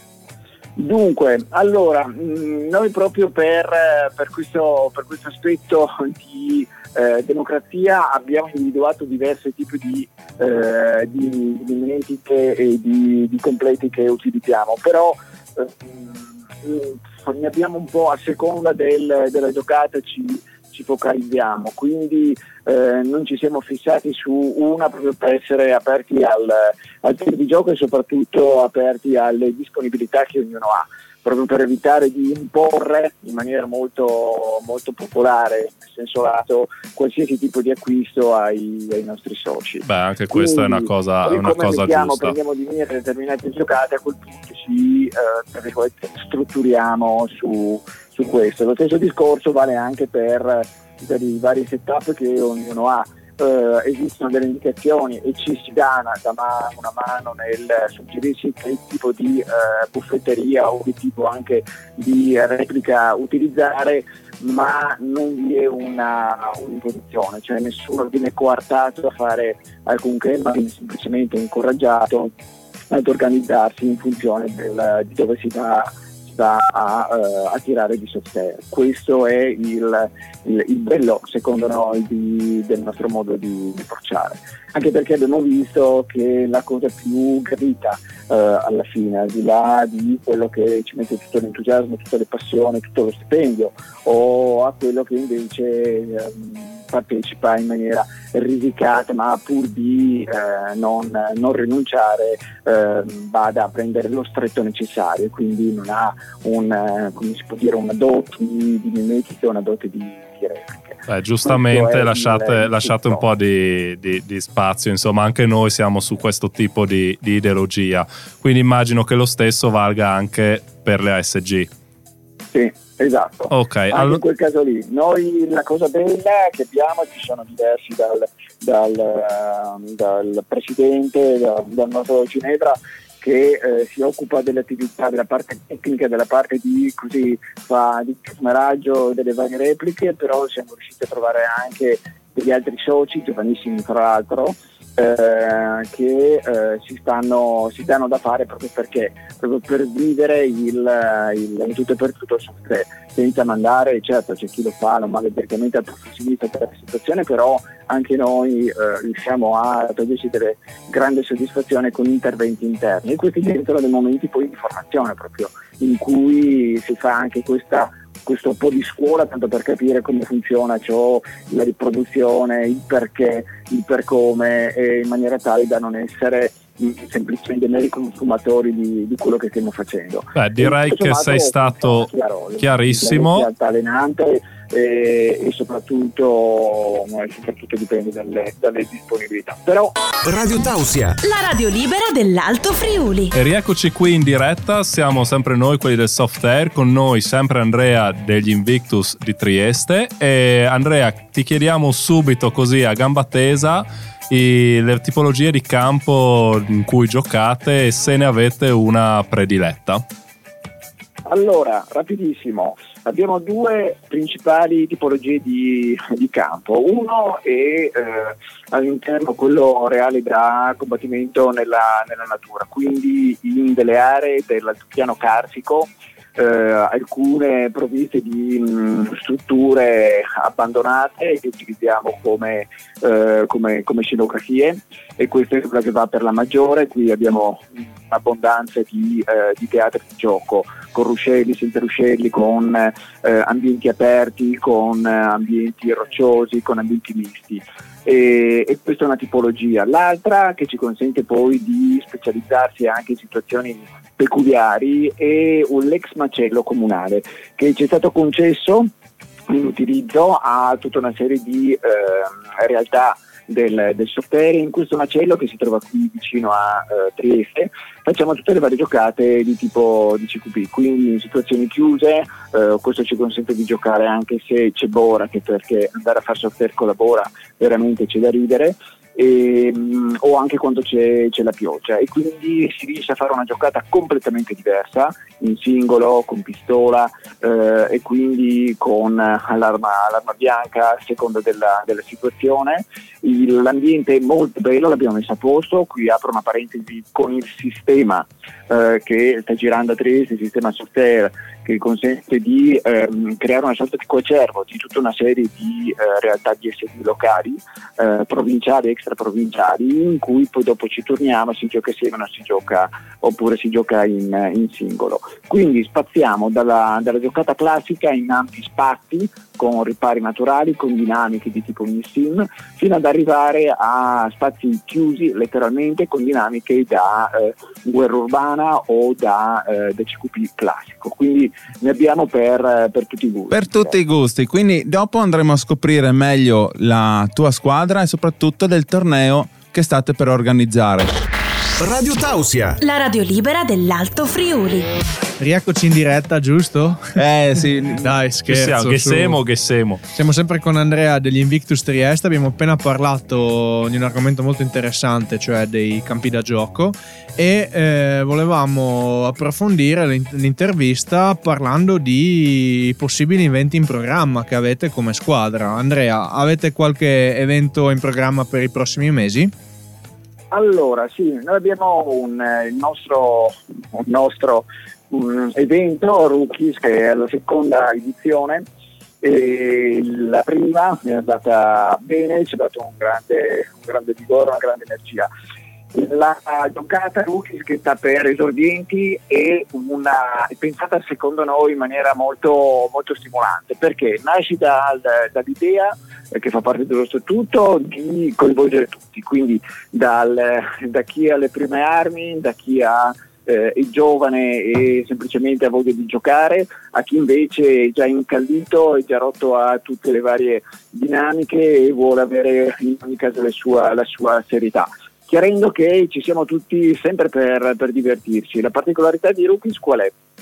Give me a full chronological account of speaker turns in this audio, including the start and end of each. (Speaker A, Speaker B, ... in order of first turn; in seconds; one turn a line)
Speaker A: 0.8-72.3
Speaker B: 39.9-42.3
Speaker A: 72.9-113.2
Speaker B: 111.1-121.7
Speaker A: 122.5-189.9
Speaker B: 123.5-124.2
Speaker B: 180.3-183.5
Speaker C: 190.2-191.2
Speaker D: 191.2-193.3
Speaker B: 193.3-210.0
Speaker A: 211.2-258.9
Speaker A: 259.5-333.9
Speaker E: 333.5-341.1
Speaker C: 341.8-342.8
Speaker D: 342.8-344.9
Speaker F: 345.4-347.0
Speaker E: 347.2-348.1
Speaker F: 347.9-349.4
Speaker B: 348.5-350.0
Speaker F: 350.1-369.5
Speaker A: 370.5-378.6
Speaker A: 379.2-385.3
Speaker A: 385.9-420.1